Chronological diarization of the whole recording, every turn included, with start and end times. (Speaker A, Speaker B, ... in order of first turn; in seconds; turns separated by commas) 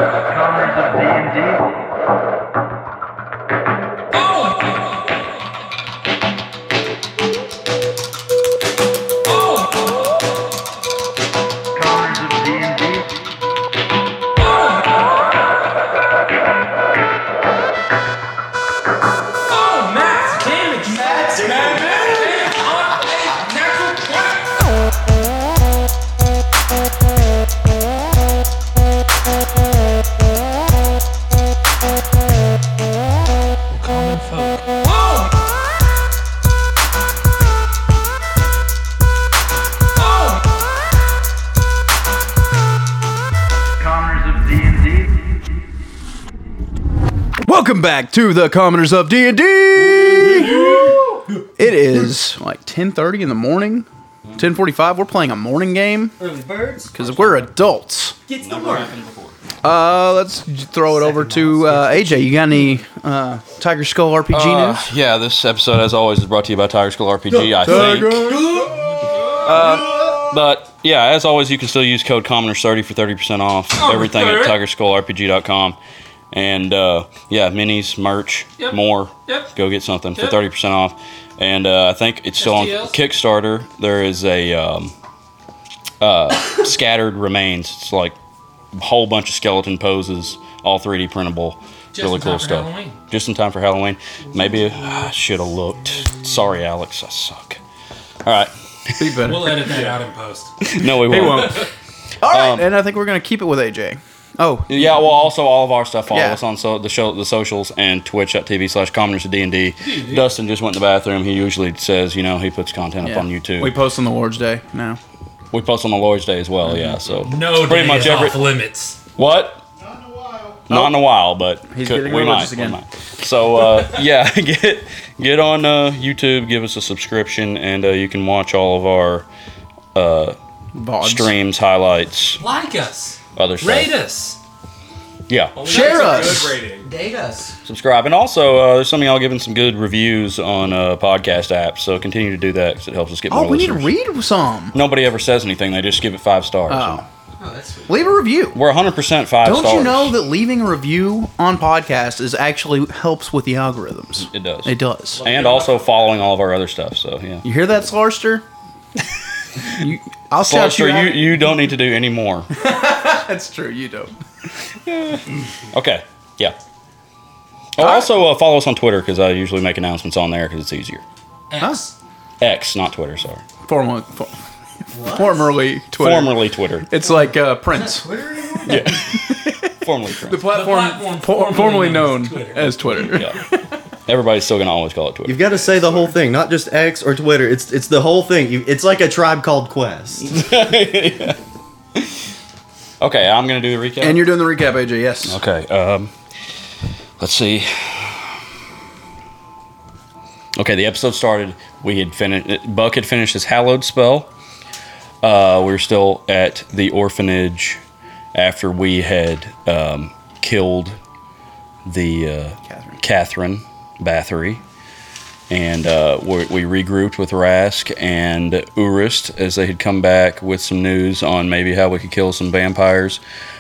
Speaker A: 0.3-1.7, Speaker B: 11.8-12.9, Speaker A: 19.5-24.7, Speaker B: 21.2-21.7, Speaker A: 33.7-35.3, Speaker C: 47.4-50.6, Speaker B: 50.4-51.2, Speaker C: 51.6-56.1, Speaker B: 56.2-57.3, Speaker C: 56.9-58.2, Speaker B: 58.3-58.9, Speaker D: 58.4-59.4, Speaker C: 59.6-64.9, Speaker B: 61.0-62.6, Speaker A: 61.3-61.9, Speaker D: 64.3-68.5, Speaker C: 67.6-68.8, Speaker D: 69.3-75.8, Speaker A: 73.8-74.6, Speaker D: 76.3-84.9, Speaker A: 78.6-79.5, Speaker A: 82.4-83.0, Speaker D: 86.0-88.2, Speaker D: 88.7-97.6, Speaker A: 91.9-93.0, Speaker D: 98.2-99.2, Speaker C: 99.0-99.9, Speaker A: 99.2-101.6, Speaker D: 100.6-101.7, Speaker C: 101.1-101.5, Speaker C: 102.2-104.8, Speaker D: 102.2-102.7, Speaker D: 104.7-113.8, Speaker C: 106.1-106.4, Speaker A: 109.8-110.2, Speaker C: 113.0-115.0, Speaker D: 115.5-118.4, Speaker A: 117.2-119.0, Speaker D: 119.2-119.6, Speaker D: 120.7-129.3, Speaker C: 121.7-122.8, Speaker D: 129.9-130.4, Speaker C: 130.8-131.4, Speaker D: 131.0-132.4, Speaker A: 132.4-134.4, Speaker D: 133.4-133.9, Speaker D: 135.3-135.7, Speaker A: 135.6-136.9, Speaker C: 135.7-136.6, Speaker B: 135.7-137.6, Speaker D: 137.7-143.9, Speaker C: 143.3-144.8, Speaker D: 144.7-147.0, Speaker C: 146.7-147.1, Speaker B: 147.4-148.2, Speaker C: 147.9-148.6, Speaker D: 148.5-150.2, Speaker C: 149.4-155.3, Speaker D: 154.2-157.4, Speaker A: 155.3-155.6, Speaker C: 157.4-158.4, Speaker C: 159.7-161.3, Speaker D: 160.4-162.5, Speaker C: 162.6-164.1, Speaker D: 164.8-166.6, Speaker D: 167.8-171.0, Speaker C: 167.8-168.1, Speaker A: 171.5-171.9, Speaker D: 172.4-173.4, Speaker C: 173.6-174.3, Speaker B: 174.9-175.5, Speaker C: 175.1-178.1, Speaker D: 176.0-176.9, Speaker B: 177.1-179.0, Speaker D: 178.7-180.5, Speaker C: 178.7-179.7, Speaker C: 180.2-183.7, Speaker A: 180.5-183.2, Speaker D: 183.0-183.4, Speaker D: 184.1-185.5, Speaker E: 185.2-190.3, Speaker D: 190.2-191.4, Speaker D: 193.0-194.3, Speaker C: 194.0-195.4, Speaker D: 195.2-196.1, Speaker D: 197.2-198.4, Speaker D: 200.6-204.3, Speaker D: 205.2-207.8, Speaker D: 208.3-211.0, Speaker D: 211.8-214.6, Speaker C: 212.7-213.0, Speaker D: 215.5-223.2